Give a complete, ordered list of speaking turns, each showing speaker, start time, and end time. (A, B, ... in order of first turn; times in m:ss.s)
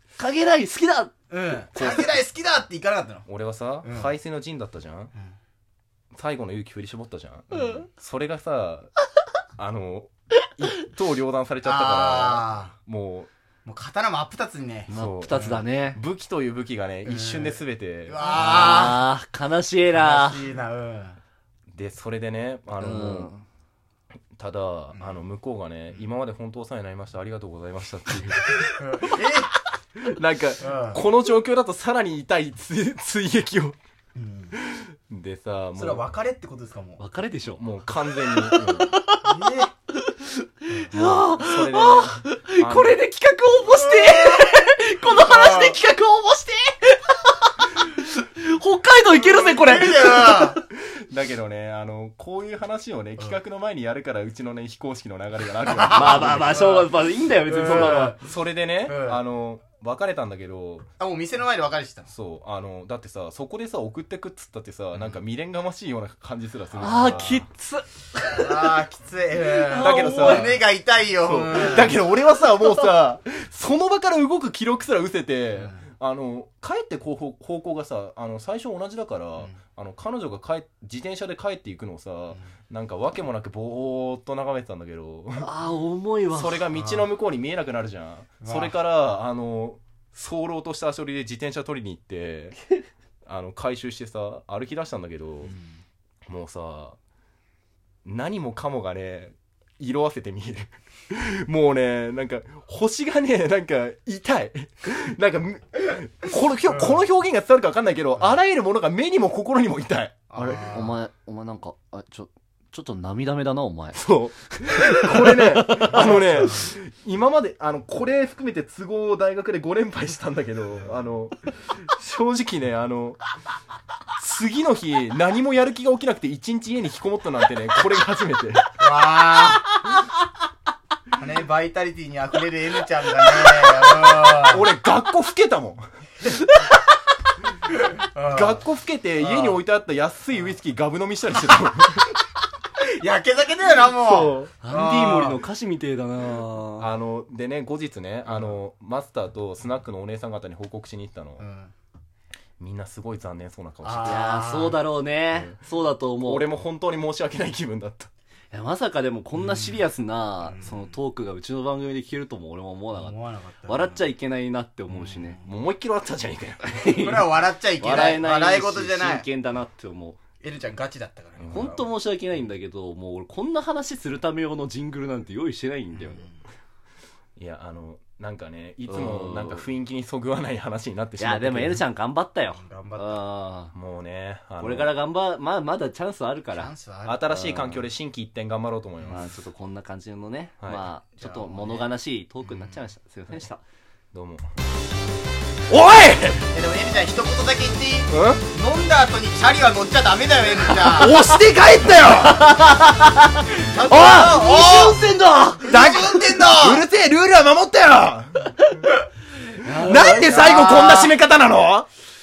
0:00.2-0:01.1 A
0:01.3-0:03.3 B
0:01.8-0:02.1 C
0:03.3-0:05.1 C
0:03.8-0:04.1 B
0:06.1-0:08.9 C
0:09.6-0:13.3 C
0:11.6-0:12.8 B
0:13.6-0:15.6 B
0:14.9-0:16.0 A
0:14.9-0:18.2 C
0:17.0-0:19.0 B
0:18.2-0:20.4 A
0:19.9-0:21.2 B
0:21.7-0:23.3 C
0:22.8-0:23.4 A
0:24.4-0:28.7 C
0:28.7-0:29.5 B
0:30.0-0:33.8 C
0:30.6-0:31.0 B
0:34.2-0:34.6 B
0:34.6-0:36.1 C
0:35.8-0:37.0 B
0:37.0-0:37.6 A
0:37.6-0:39.0 C
0:38.2-0:39.2 A
0:39.2-0:39.7 B
0:40.0-0:50.6 A
0:40.9-0:43.0 C
0:43.7-0:44.5 B
0:45.0-0:45.8 B
0:49.2-0:50.6 B
0:50.9-0:56.8 C
0:55.7-0:56.8 B
0:55.9-0:58.2 A
0:57.5-0:58.2 B
0:57.8-1:00.9 C
0:58.8-0:59.2 B
1:01.0-1:02.1 B
1:02.1-1:07.5 C
1:06.8-1:08.8 A
1:08.4-1:12.0 B
1:09.5-1:10.5 A
1:09.7-1:10.6 C
1:11.2-1:25.5 C
1:25.4-1:26.6 A
1:26.3-1:32.6 C
1:26.7-1:27.1 B
1:28.4-1:28.7 B
1:33.2-1:35.5 C
1:36.3-1:37.0 C
1:38.0-1:50.7 C
1:50.3-1:51.0 B
1:50.5-1:56.2 A
1:54.0-2:01.4 C
1:55.9-1:56.6 B
2:01.9-2:03.2 C
2:04.2-2:08.6 C
2:08.8-2:09.7 B
2:11.2-2:14.7 B
2:14.5-2:15.8 C
2:18.0-2:18.6 B
2:18.3-2:22.1 C
2:19.2-2:19.6 B
2:22.8-2:25.4 B
2:24.0-2:24.5 C
2:24.6-2:26.9 A
2:26.8-2:31.4 C
2:31.4-2:31.7 B
2:32.6-2:34.2 C
2:33.8-2:34.8 B
2:34.0-2:36.4 A
2:36.2-2:38.1 C
2:38.5-2:43.2 A
2:39.4-2:39.8 B
2:40.5-2:40.9 B
2:42.9-2:44.1 B
2:43.7-2:45.4 A
2:44.9-2:45.4 B
2:45.4-2:46.8 C
2:46.6-2:50.2 A
2:46.9-2:49.3 B
2:50.4-2:51.9 B
2:51.4-2:51.7 C
2:51.5-2:56.2 A
2:56.0-2:56.3 B
2:57.4-3:01.8 C
2:58.9-2:59.7 A
3:01.2-3:03.7 A
3:02.6-3:03.2 B
3:03.7-3:04.9 C
3:04.6-3:06.7 A
3:06.5-3:07.3 B
3:07.1-3:09.3 C
3:07.3-3:07.8 A
3:09.1-3:13.6 A
3:10.6-3:10.9 C
3:11.2-3:11.9 B
3:12.4-3:12.8 B
3:14.1-3:14.5 C
3:15.7-3:16.5 C
3:16.5-3:21.2 B
3:18.1-3:18.4 C
3:20.9-3:22.5 C
3:21.0-3:21.4 A
3:22.0-3:25.9 A
3:23.6-3:25.0 B
3:25.6-3:26.8 B
3:25.7-3:28.5 C
3:29.6-3:31.1 A
3:29.8-3:31.9 C